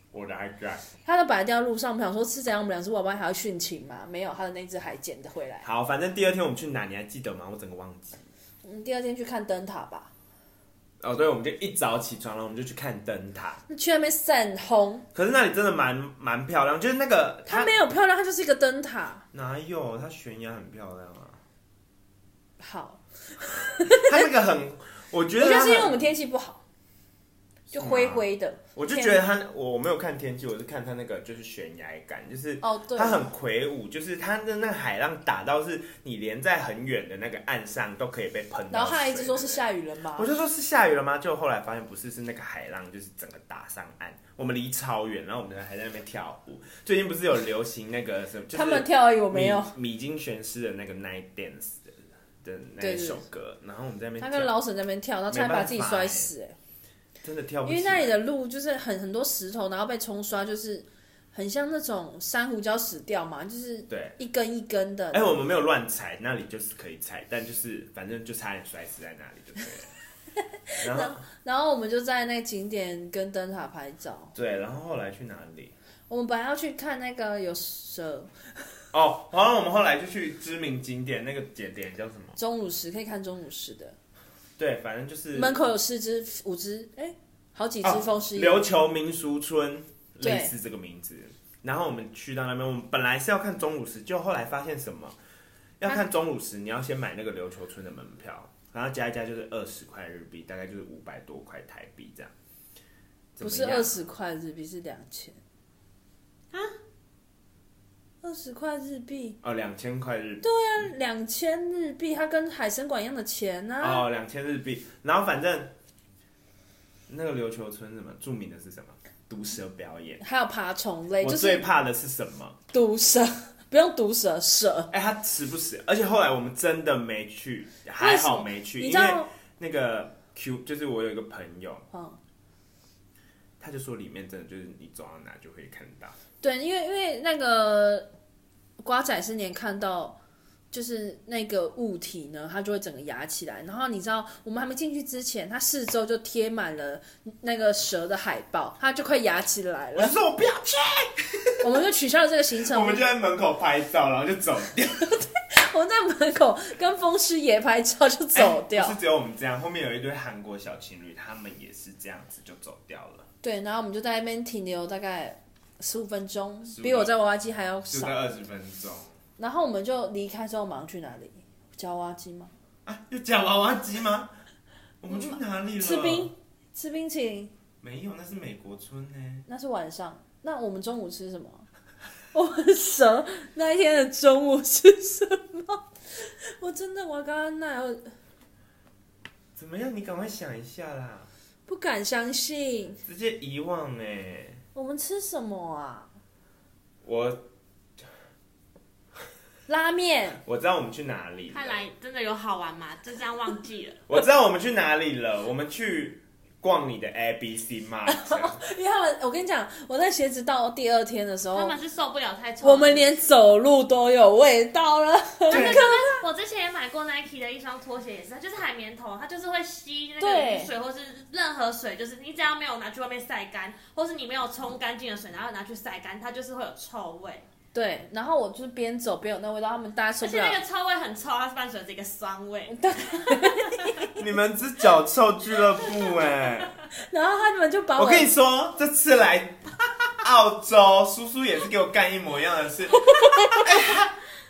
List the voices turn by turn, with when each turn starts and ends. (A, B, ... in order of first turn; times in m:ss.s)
0:00.1-0:00.9 A
0:01.0-0:05.6 B
0:05.6-0:08.2 A
0:08.6-0:10.1 B
0:11.0-0:13.6 A
0:13.7-0:15.0 B
0:15.1-0:17.8 A
0:17.5-0:19.2 B
0:19.3-0:21.4 A
0:22.6-0:24.2 B
0:23.8-0:26.0 A
0:25.4-0:26.6 B
0:27.7-0:29.2 B
0:27.7-0:28.2 A
0:28.7-0:39.6 A
0:32.6-0:33.3 B
0:38.7-0:40.3 B
0:40.2-0:54.5 A
0:48.5-0:49.7 B
0:52.8-0:53.2 B
0:54.2-0:56.6 B
0:55.3-0:56.3 A
0:57.2-0:58.1 A
0:57.6-1:05.4 B
1:03.9-1:04.2 A
1:05.1-1:09.9 A
1:10.7-1:14.3 B
1:10.8-1:11.2 A
1:14.3-1:15.7 A
1:16.1-1:18.3 B
1:18.9-1:22.4 A
1:22.4-1:24.0 B
1:24.6-1:25.6 A
1:25.3-1:28.6 B
1:27.8-1:35.2 A
1:30.2-1:30.5 B
1:35.8-1:42.3 A
1:43.3-1:43.9 A
1:43.4-1:45.4 B
1:48.2-1:49.4 B
1:49.4-1:50.4 A
1:50.4-1:54.0 B
1:53.8-1:55.7 A
1:57.1-2:00.2 A
2:00.2-2:01.6 B
2:01.2-2:02.6 A
2:02.7-2:04.9 B
2:04.9-2:11.8 A
2:08.0-2:09.3 B
2:11.9-2:12.2 B
2:13.6-2:16.2 A
2:16.4-2:18.1 B
2:18.8-2:20.2 B
2:20.7-2:30.2 B
2:29.9-2:31.6 A
2:31.6-2:33.0 B
2:32.6-2:35.2 A
2:35.5-2:39.0 B
2:38.3-2:43.3 A
2:43.4-2:48.2 B
2:46.6-2:47.1 A
2:47.9-2:49.2 A
2:49.4-2:52.5 B
2:52.8-2:54.3 A
2:55.0-2:56.3 A
2:55.1-2:57.5 B
2:57.8-2:59.4 A
2:59.5-3:01.7 B
3:02.3-3:08.1 B
3:09.6-3:11.3 A
3:11.7-3:13.0 B
3:13.0-3:14.6 A
3:14.7-3:16.1 B
3:17.0-3:17.4 A
3:19.7-3:20.4 B
3:20.4-3:21.8 A
3:21.5-3:24.0 C
3:24.1-3:28.6 A
3:28.1-3:31.7 B
3:31.5-3:33.1 C
3:32.6-3:36.2 B
3:35.5-3:47.4 C
3:35.5-3:35.8 A
3:40.2-3:40.7 B
3:47.7-3:50.6 B
3:50.2-3:53.9 C
3:52.7-3:54.1 B
3:54.2-3:56.7 A
3:55.8-3:56.7 C
3:57.0-3:58.3 B
3:58.0-4:04.1 A
4:03.1-4:03.6 B